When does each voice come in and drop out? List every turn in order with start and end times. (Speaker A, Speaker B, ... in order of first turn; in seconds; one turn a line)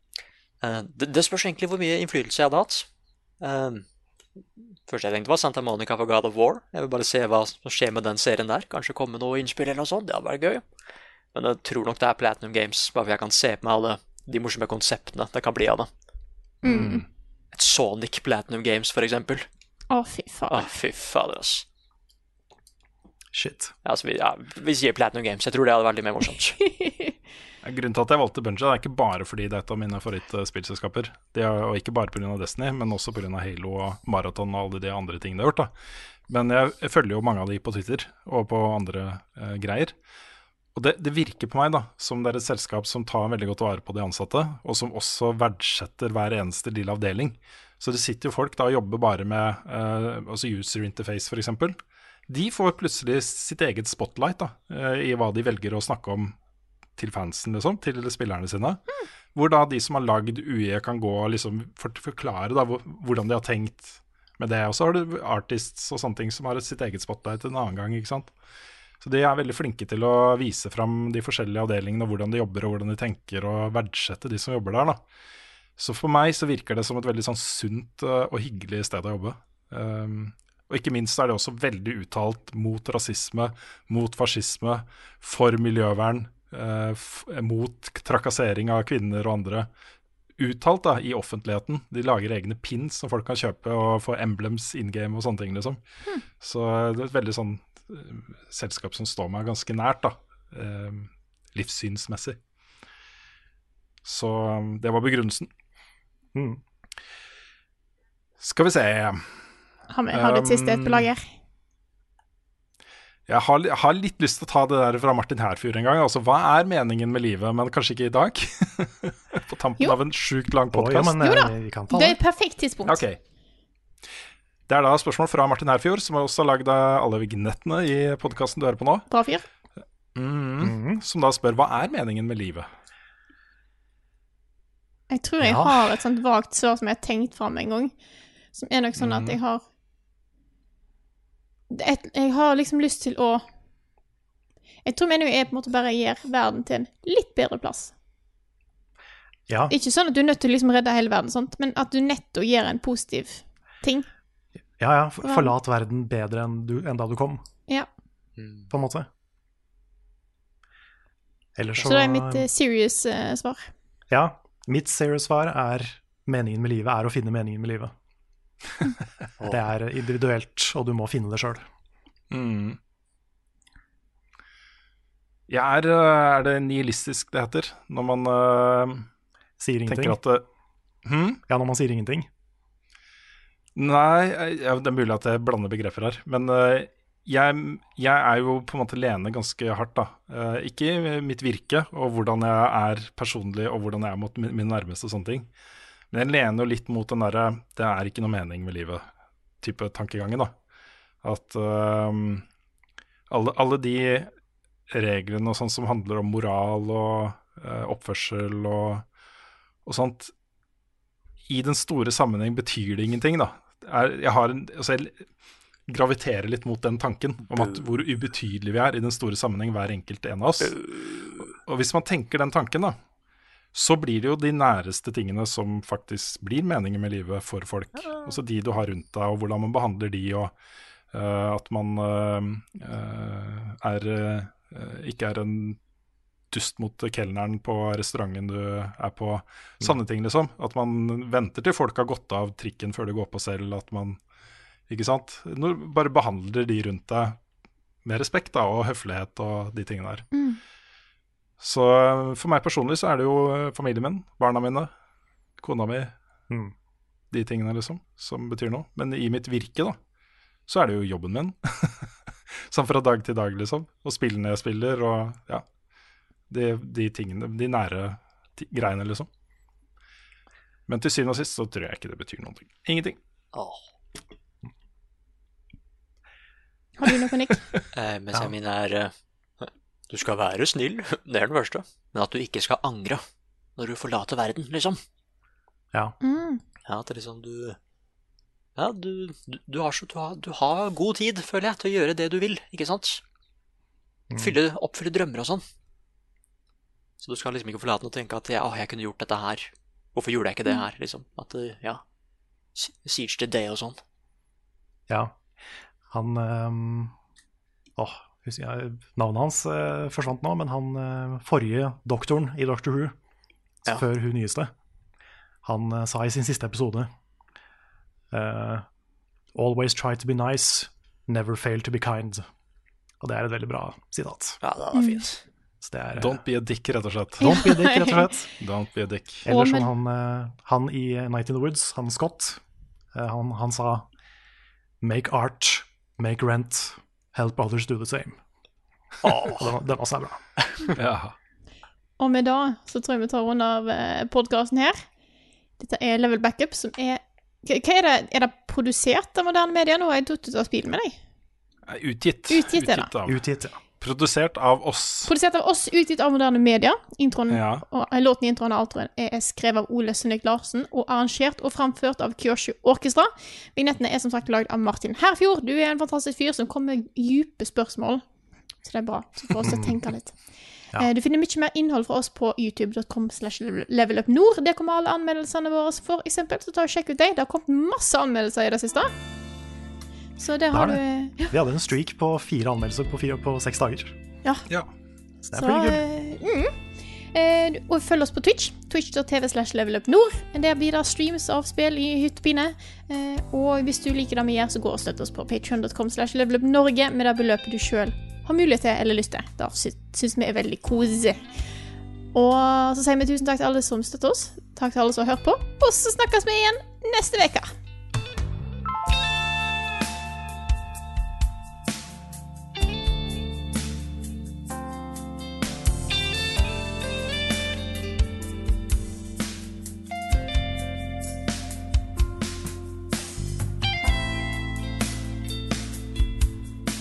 Speaker A: 0.6-2.9
Speaker A: 3.4-3.8
Speaker A: 4.9-10.6
Speaker A: 11.3-15.9
Speaker B: 16.6-17.0
Speaker C: 16.6-17.0
Speaker A: 17.5-19.5
Speaker B: 19.9-20.7
Speaker A: 20.5-21.6
Speaker D: 23.3-23.7
Speaker A: 23.8-26.6
Speaker B: 26.6-27.1
Speaker C: 27.6-35.7
Speaker C: 36.3-39.9
Speaker C: 40.7-51.8
Speaker C: 52.3-56.3
Speaker C: 57.0-68.3
Speaker C: 69.0-75.0
Speaker C: 75.8-89.7
Speaker C: 90.4-95.8
Speaker C: 96.4-102.4
Speaker C: 104.0-105.5
Speaker D: 106.3-106.6
Speaker C: 108.4-109.4
Speaker B: 109.9-111.2
Speaker C: 110.1-111.1
Speaker C: 113.3-121.2
Speaker D: 120.7-122.2
Speaker B: 121.2-123.0
Speaker C: 122.8-123.2
Speaker C: 124.7-129.1
Speaker B: 129.1-129.4
Speaker C: 130.1-132.7
Speaker D: 130.6-131.0
Speaker B: 135.1-137.9
Speaker D: 135.4-136.0
Speaker B: 138.5-139.6
Speaker C: 139.0-139.4
Speaker B: 141.7-143.4
Speaker B: 144.8-147.9
Speaker D: 149.5-149.7
Speaker B: 149.7-154.1
Speaker D: 154.8-157.4
Speaker B: 155.2-155.5
Speaker A: 158.4-158.7
Speaker D: 158.7-159.1
Speaker D: 161.6-162.5
Speaker B: 161.8-163.7
Speaker D: 164.1-167.9
Speaker D: 169.4-171.7
Speaker C: 172.3-172.8
Speaker C: 175.5-179.1
Speaker D: 179.6-180.2
Speaker C: 179.8-180.4
Speaker C: 181.0-181.4
Speaker D: 181.5-182.3
Speaker C: 183.8-195.5
Speaker C: 196.1-199.0
Speaker C: 199.6-200.5
Speaker C: 201.2-202.4
Speaker C: 203.3-204.3
Speaker C: 204.9-209.0
Speaker C: 209.8-210.3
Speaker C: 211.5-215.1
Speaker C: 215.9-220.7
Speaker A: 217.6-217.8
Speaker A: 220.6-221.5
Speaker C: 221.6-223.0
Speaker C: 223.7-230.5
Speaker C: 231.1-235.8
Speaker C: 236.5-244.2
Speaker C: 244.9-247.4
Speaker C: 248.0-250.3
Speaker B: 250.3-250.6
Speaker C: 251.6-254.9
Speaker C: 255.6-256.1
Speaker C: 257.3-260.0
Speaker C: 260.7-265.6
Speaker C: 266.5-269.3
Speaker C: 270.9-273.2
Speaker A: 273.5-273.9
Speaker B: 277.0-277.6
Speaker A: 277.9-283.2
Speaker A: 283.8-285.0
Speaker B: 286.2-286.6
Speaker A: 286.9-287.8
Speaker A: 288.8-293.2
Speaker D: 294.3-294.6
Speaker A: 294.4-295.6
Speaker A: 297.2-302.0
Speaker A: 302.7-304.0
Speaker D: 305.1-305.4
Speaker D: 306.1-307.1
Speaker D: 308.0-313.1
Speaker D: 313.8-314.7
Speaker D: 315.6-317.1
Speaker D: 318.3-318.9
Speaker D: 319.5-322.4
Speaker D: 323.2-324.6
Speaker A: 324.6-325.4
Speaker B: 324.9-325.2
Speaker D: 325.8-326.4
Speaker C: 326.2-327.5
Speaker D: 327.4-328.5
Speaker B: 327.4-328.3
Speaker C: 328.6-329.5
Speaker D: 329.4-332.6
Speaker B: 329.5-329.9
Speaker D: 333.1-334.1
Speaker D: 335.0-338.4
Speaker A: 339.2-339.7
Speaker D: 339.2-340.4
Speaker A: 340.6-340.9
Speaker C: 340.9-341.3
Speaker B: 342.2-345.0
Speaker B: 345.8-351.2
Speaker C: 351.9-353.4
Speaker B: 352.5-353.1
Speaker D: 353.2-353.8
Speaker C: 354.0-355.3
Speaker B: 355.2-368.2
Speaker C: 357.5-357.8
Speaker B: 368.8-370.4
Speaker D: 369.6-370.0
Speaker B: 371.0-379.1
Speaker B: 380.4-381.5
Speaker D: 380.7-384.2
Speaker D: 385.4-386.0
Speaker B: 385.6-386.7
Speaker B: 387.3-401.4
Speaker B: 402.3-407.7